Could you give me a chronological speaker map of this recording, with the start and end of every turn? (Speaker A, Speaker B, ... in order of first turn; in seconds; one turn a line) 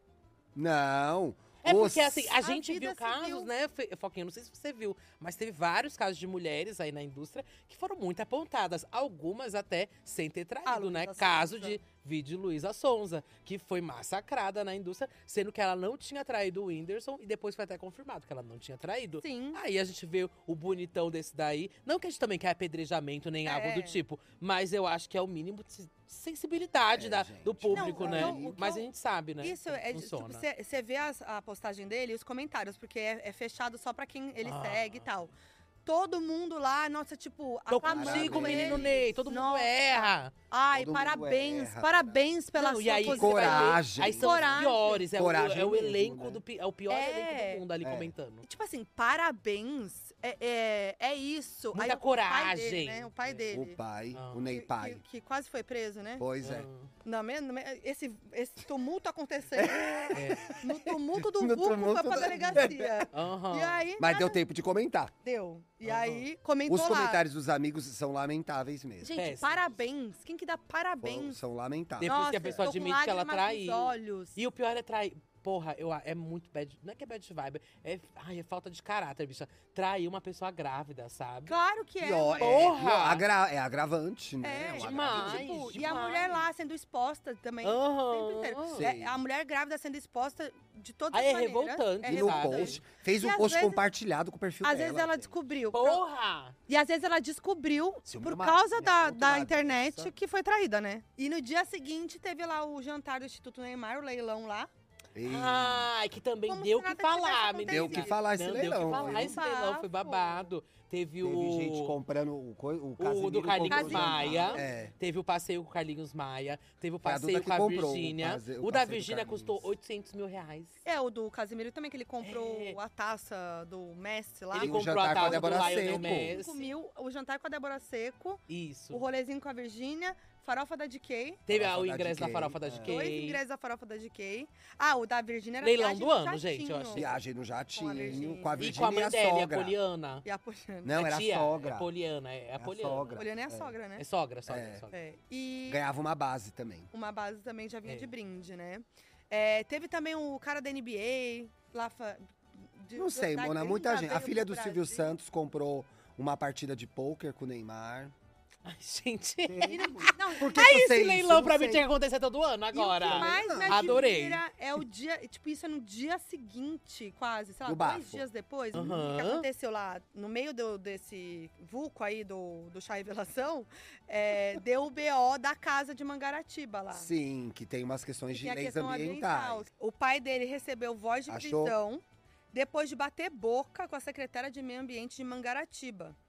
Speaker A: 0.6-2.4
Speaker B: 1.6-30.4
Speaker C: 2.4-3.5
Speaker C: 10.7-11.8
Speaker C: 19.2-19.6
Speaker C: 23.4-24.0
Speaker A: 26.9-28.6
Speaker C: 27.7-28.9
Speaker C: 29.4-35.3
Speaker B: 34.4-35.0
Speaker C: 35.9-45.1
Speaker B: 37.7-40.3
Speaker A: 37.9-39.1
Speaker A: 40.7-42.2
Speaker B: 42.5-48.5
Speaker A: 43.1-44.6
Speaker A: 45.1-46.4
Speaker C: 46.9-47.6
Speaker A: 47.8-48.1
Speaker C: 48.4-53.8
Speaker B: 51.7-53.5
Speaker A: 53.5-55.0
Speaker B: 54.1-54.5
Speaker C: 54.5-56.3
Speaker A: 56.2-56.7
Speaker B: 56.4-56.9
Speaker C: 57.0-64.4
Speaker A: 59.6-63.1
Speaker B: 60.1-60.5
Speaker B: 63.1-63.8
Speaker A: 64.0-65.1
Speaker C: 65.2-67.2
Speaker B: 65.8-66.3
Speaker A: 66.7-69.1
Speaker C: 69.0-71.4
Speaker B: 69.2-69.8
Speaker A: 71.0-72.7
Speaker B: 72.0-81.6
Speaker C: 72.0-74.4
Speaker C: 81.5-82.8
Speaker A: 82.0-86.0
Speaker B: 82.4-83.3
Speaker C: 84.4-93.9
Speaker B: 84.8-86.4
Speaker B: 87.6-88.9
Speaker A: 88.7-89.2
Speaker B: 91.1-92.8
Speaker A: 92.0-95.3
Speaker C: 94.6-96.0
Speaker B: 95.7-96.5
Speaker C: 96.7-104.7
Speaker A: 98.1-100.1
Speaker A: 105.1-105.9
Speaker B: 105.2-112.0
Speaker C: 106.5-108.1
Speaker A: 107.7-109.4
Speaker C: 108.8-110.5
Speaker A: 111.2-114.9
Speaker B: 113.0-120.8
Speaker C: 113.7-114.8
Speaker A: 117.0-119.7
Speaker C: 120.8-131.4
Speaker B: 122.2-122.8
Speaker B: 124.5-126.7
Speaker A: 124.5-126.4
Speaker B: 128.5-129.0
Speaker B: 131.5-133.4
Speaker A: 131.5-133.0
Speaker C: 132.8-137.1
Speaker B: 135.6-137.1
Speaker A: 136.9-139.8
Speaker C: 137.7-138.8
Speaker B: 138.0-140.2
Speaker C: 140.2-141.0
Speaker A: 140.8-141.9
Speaker B: 140.9-143.2
Speaker A: 142.6-143.7
Speaker C: 143.2-144.0
Speaker B: 144.0-144.9
Speaker A: 144.5-144.8
Speaker C: 144.9-145.8
Speaker A: 145.7-146.9
Speaker C: 146.9-155.2
Speaker A: 153.0-158.1
Speaker B: 158.7-164.4
Speaker A: 159.4-161.8
Speaker C: 159.6-160.8
Speaker C: 162.7-177.1
Speaker A: 163.1-164.0
Speaker A: 167.7-168.2
Speaker B: 168.7-169.5
Speaker A: 176.9-179.7
Speaker C: 178.3-186.2
Speaker A: 181.3-181.8